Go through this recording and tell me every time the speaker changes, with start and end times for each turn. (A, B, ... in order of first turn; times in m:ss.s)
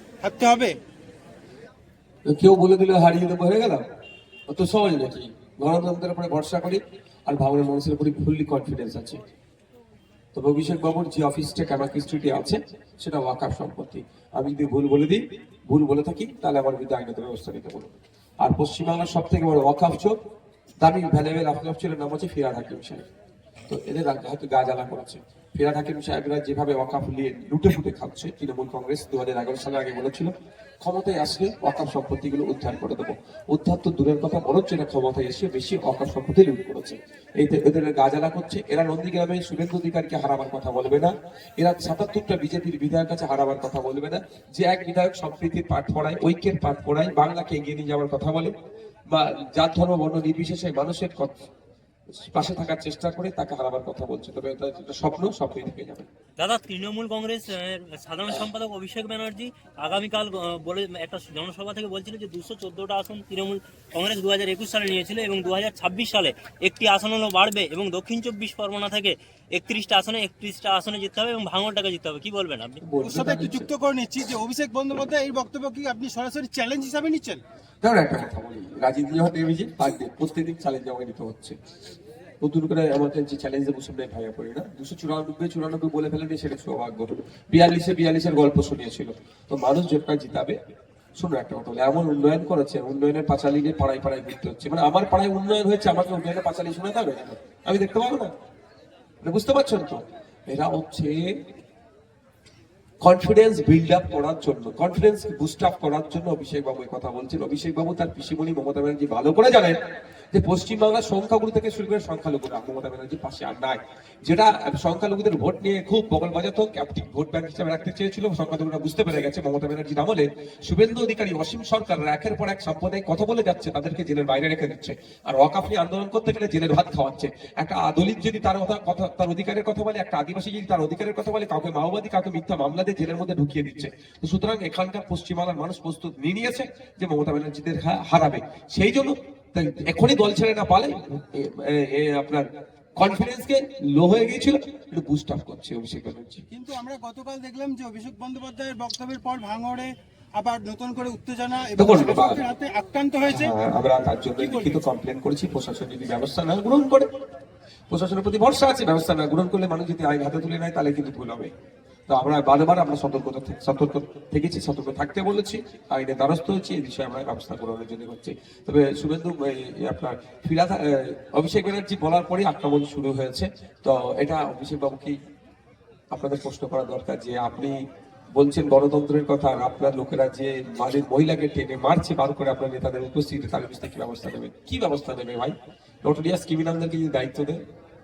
0:00.2-0:00.7 A
0:02.3-0:03.8 B
0:04.5-0:09.2 B
0:10.3-0:20.2 B
0:20.8-0:23.0 B
0:23.7-0:48.5 B
0:49.1-0:51.3 B
0:52.1-0:56.1 B
0:56.4-1:12.8 C
1:12.8-1:13.7 B
1:13.0-1:17.4 A
1:17.8-1:21.6 B
1:22.4-1:30.6 B
1:31.2-1:38.3 B
1:39.2-1:41.4 B
1:43.0-1:49.8 B
1:50.3-2:26.4 B
2:26.5-2:33.5 A
2:31.8-2:32.4 B
2:33.3-2:37.1 B
2:34.4-2:34.8 A
2:37.9-2:41.5 B
2:42.1-2:55.2 B
2:56.1-2:57.8 B
2:58.3-3:07.6 B